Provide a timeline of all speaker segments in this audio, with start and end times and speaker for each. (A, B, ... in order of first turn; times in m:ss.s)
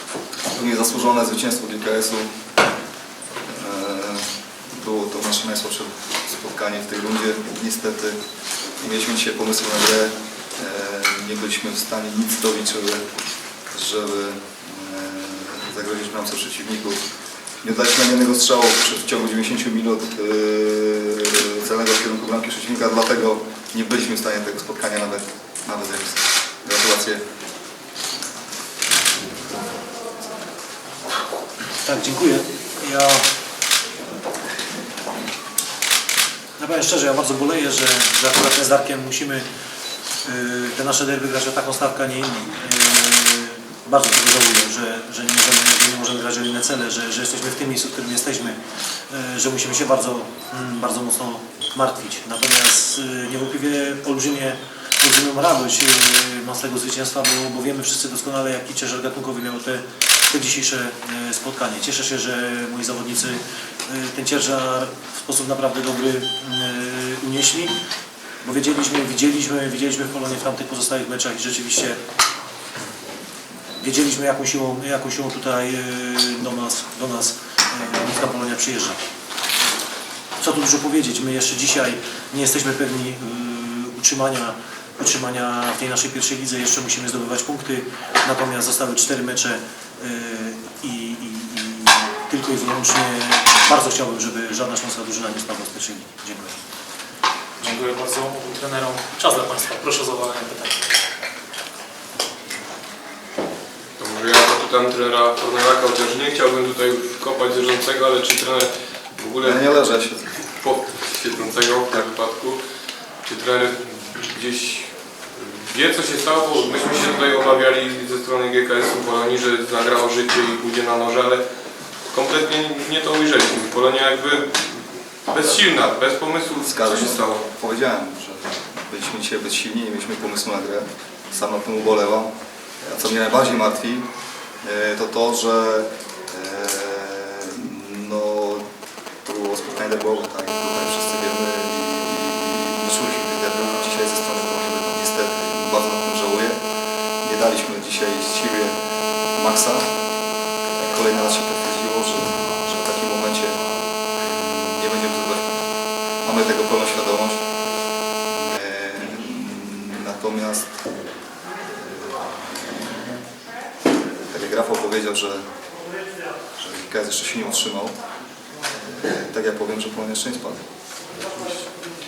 0:00.5-0:02.3 A
0:03.5-0:08.2 A
0:08.8-0:13.1 A
0:13.7-0:17.0 A
0:17.6-0:27.2 A
0:31.8-0:33.2 B
0:36.6-0:39.5 B
0:40.2-0:48.6 B
0:49.1-1:07.7 B
1:08.4-1:12.0 B
1:13.8-1:19.0 B
1:20.4-1:36.6 B
1:37.6-1:40.8 C
1:44.0-1:49.8 D
1:49.4-1:50.3 A
1:50.6-1:52.6 D
1:53.3-2:01.4 D
2:02.1-2:04.7 D
2:05.3-2:07.4 D
2:06.6-2:12.3 A
2:12.8-2:14.1 A
2:14.6-2:18.6 A
2:19.2-2:26.6 A
2:27.2-2:28.8 A
2:29.4-2:29.9 A
2:30.8-2:33.6 A
2:34.7-2:35.5 A
2:36.2-2:37.4 A
2:38.3-2:40.7 A
2:44.3-2:45.4 A
2:46.6-2:48.0 A
2:48.8-2:50.6 A
2:51.3-2:51.7 D